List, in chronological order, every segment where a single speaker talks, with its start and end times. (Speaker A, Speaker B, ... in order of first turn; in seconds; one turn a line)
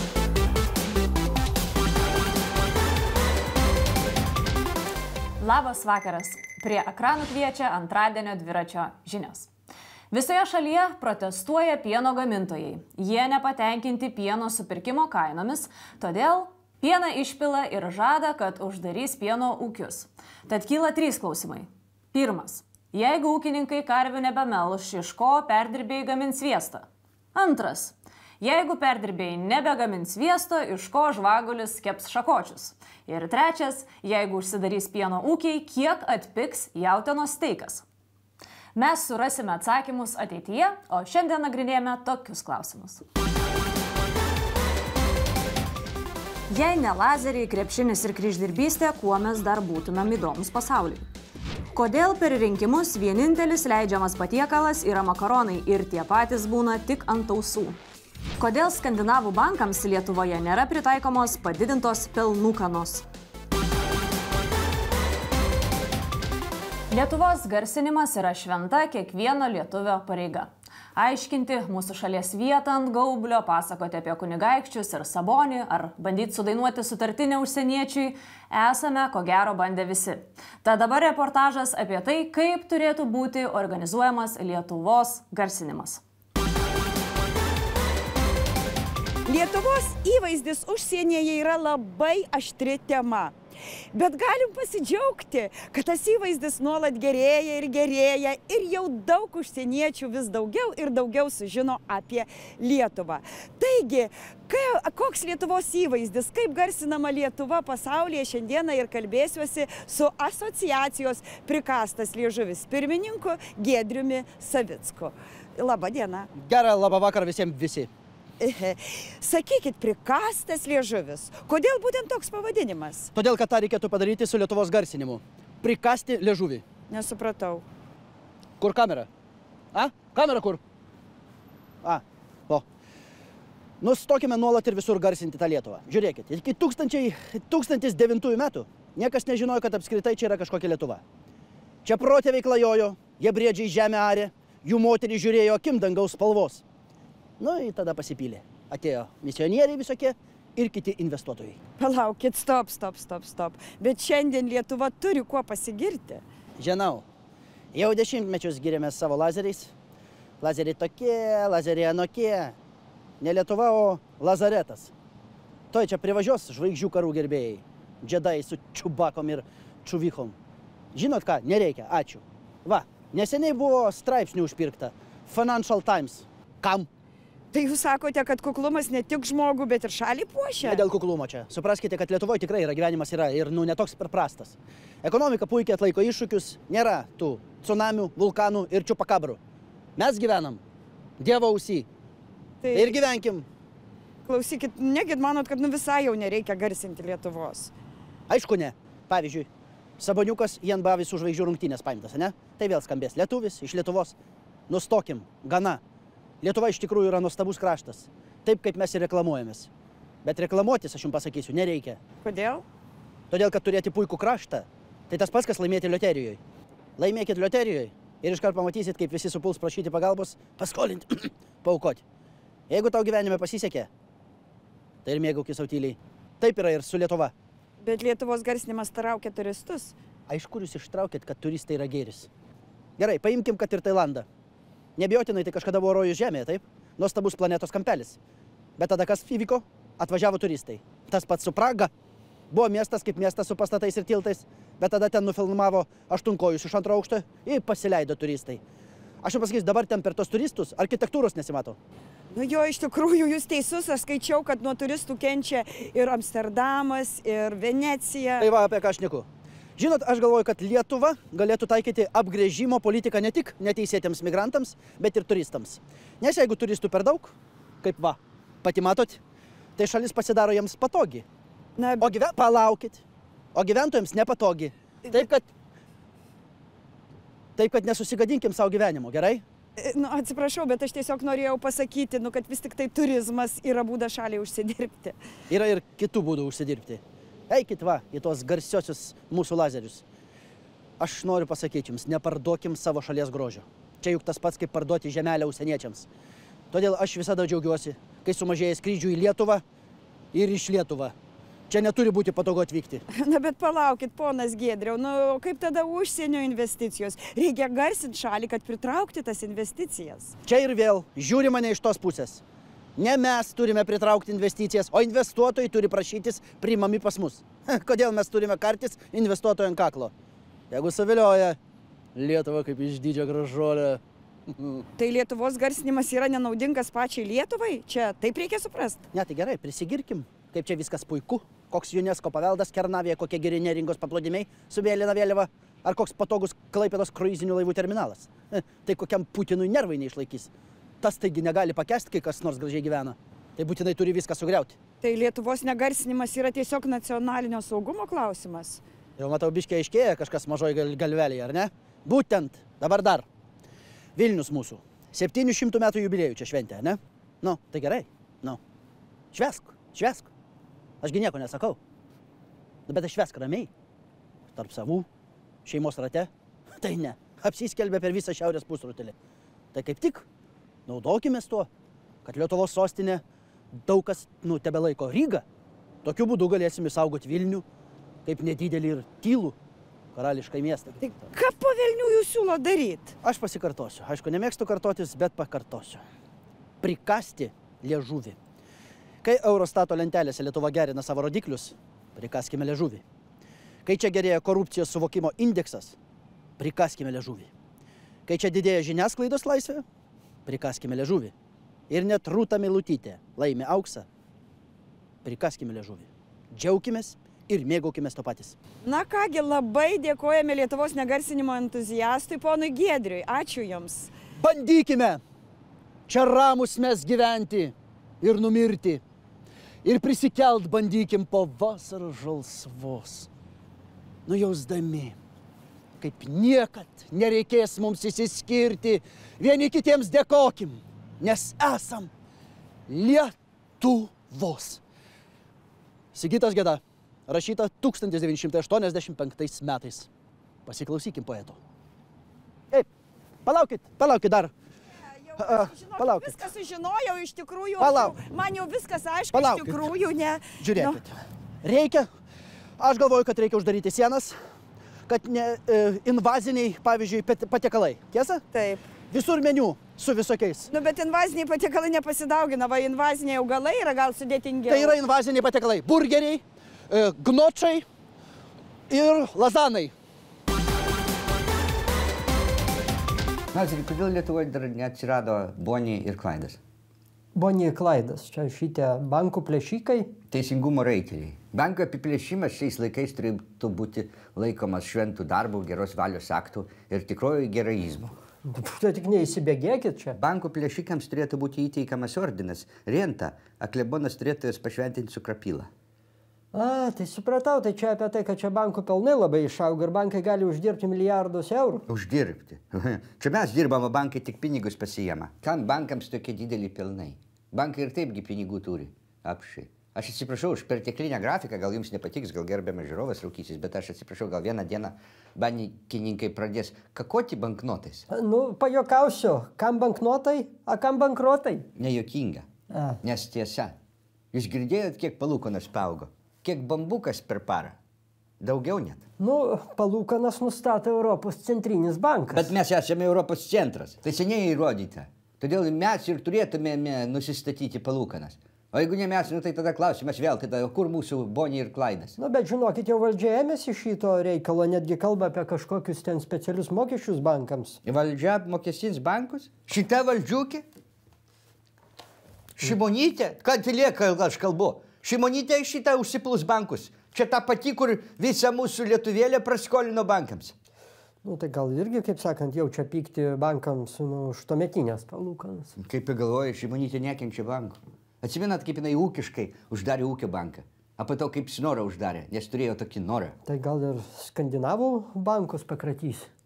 Speaker A: 5.4-9.5
Speaker A: 10.1-37.9
Speaker A: 38.8-43.0
Speaker A: 46.5-51.1
Speaker A: 51.8-57.8
Speaker A: 58.4-63.0
Speaker A: 66.9-86.0
Speaker B: 89.3-93.3
Speaker B: 93.9-116.3
Speaker C: 116.4-117.9
Speaker B: 118.4-123.1
Speaker C: 123.1-126.6
Speaker B: 126.9-127.7
Speaker C: 128.6-129.1
Speaker C: 129.7-130.6
Speaker C: 131.8-132.6
Speaker C: 133.8-141.0
Speaker C: 141.8-146.6
Speaker C: 147.4-151.6
Speaker B: 151.8-156.2
Speaker C: 156.6-157.0
Speaker C: 157.7-159.7
Speaker C: 160.4-162.6
Speaker C: 163.2-164.9
Speaker C: 165.7-170.3
Speaker C: 170.9-176.9
Speaker B: 177.5-180.8
Speaker C: 180.6-189.4
Speaker C: 190.0-190.6
Speaker C: 191.2-191.9
Speaker B: 192.6-193.0
Speaker C: 192.7-193.4
Speaker B: 194.3-197.7
Speaker C: 198.3-199.5
Speaker C: 200.0-204.1
Speaker C: 204.7-205.8
Speaker C: 206.4-209.7
Speaker C: 210.2-212.0
Speaker B: 212.2-212.6
Speaker C: 213.3-216.4
Speaker C: 217.0-222.0
Speaker C: 222.7-223.9
Speaker C: 225.1-227.3
Speaker B: 227.8-230.0
Speaker C: 230.3-232.3
Speaker C: 233.0-234.3
Speaker C: 235.0-238.2
Speaker C: 238.8-241.9
Speaker C: 242.5-248.6
Speaker C: 249.2-251.8
Speaker B: 252.3-258.5
Speaker C: 258.4-259.3
Speaker C: 259.8-269.2
Speaker C: 269.8-271.2
Speaker B: 271.8-272.1
Speaker C: 272.0-273.0
Speaker C: 273.6-275.5
Speaker C: 277.6-279.4
Speaker B: 279.8-285.2
Speaker C: 285.5-290.0
Speaker C: 291.0-296.1
Speaker C: 296.7-299.6
Speaker C: 300.3-301.1
Speaker C: 301.7-303.0
Speaker B: 303.1-310.4
Speaker C: 310.4-312.4
Speaker C: 313.0-320.1
Speaker C: 320.7-321.6
Speaker C: 322.1-324.9
Speaker B: 325.0-329.1
Speaker C: 329.1-340.5
Speaker C: 341.0-344.8
Speaker B: 345.0-348.8
Speaker C: 349.2-353.2
Speaker C: 354.2-358.6
Speaker C: 359.3-360.3
Speaker C: 361.0-361.8
Speaker C: 362.9-363.7
Speaker C: 364.6-365.1
Speaker C: 365.6-369.1
Speaker C: 369.7-370.2
Speaker C: 370.9-371.7
Speaker C: 372.2-373.2
Speaker C: 373.9-375.4
Speaker C: 376.0-377.6
Speaker C: 378.3-379.6
Speaker C: 380.1-381.1
Speaker B: 381.0-383.2
Speaker C: 383.2-386.0
Speaker C: 386.8-388.4
Speaker C: 389.2-393.0
Speaker C: 393.9-396.0
Speaker C: 396.6-397.5
Speaker C: 398.3-399.8
Speaker C: 400.5-401.3
Speaker C: 401.9-404.1
Speaker C: 405.2-408.6
Speaker B: 408.8-414.1
Speaker C: 414.4-415.2
Speaker C: 416.1-419.0
Speaker C: 419.8-423.3
Speaker C: 424.3-425.2
Speaker C: 426.0-432.1
Speaker C: 432.9-434.8
Speaker C: 436.1-440.1
Speaker C: 440.7-441.6
Speaker C: 443.5-444.5
Speaker B: 445.3-451.0
Speaker C: 445.4-446.4
Speaker C: 447.8-448.2
Speaker C: 449.3-449.8
Speaker C: 450.6-452.1
Speaker C: 452.8-454.4
Speaker C: 455.1-458.4
Speaker B: 458.5-458.8
Speaker C: 459.1-460.7
Speaker B: 460.7-465.0
Speaker C: 464.7-467.9
Speaker C: 468.9-469.9
Speaker D: 473.5-476.6
Speaker E: 477.4-480.1
Speaker D: 480.3-488.2
Speaker E: 488.5-490.2
Speaker D: 490.2-495.7
Speaker E: 496.5-501.9
Speaker D: 501.9-518.1
Speaker E: 518.1-521.7
Speaker D: 521.8-522.5
Speaker E: 522.7-523.0
Speaker D: 523.0-523.8
Speaker D: 524.3-527.8
Speaker D: 528.4-529.0
Speaker E: 529.2-532.5
Speaker D: 532.3-542.2
Speaker E: 542.2-547.8
Speaker D: 547.9-550.6
Speaker D: 552.6-560.5
Speaker E: 561.2-565.7
Speaker D: 565.8-573.4
Speaker E: 573.5-576.3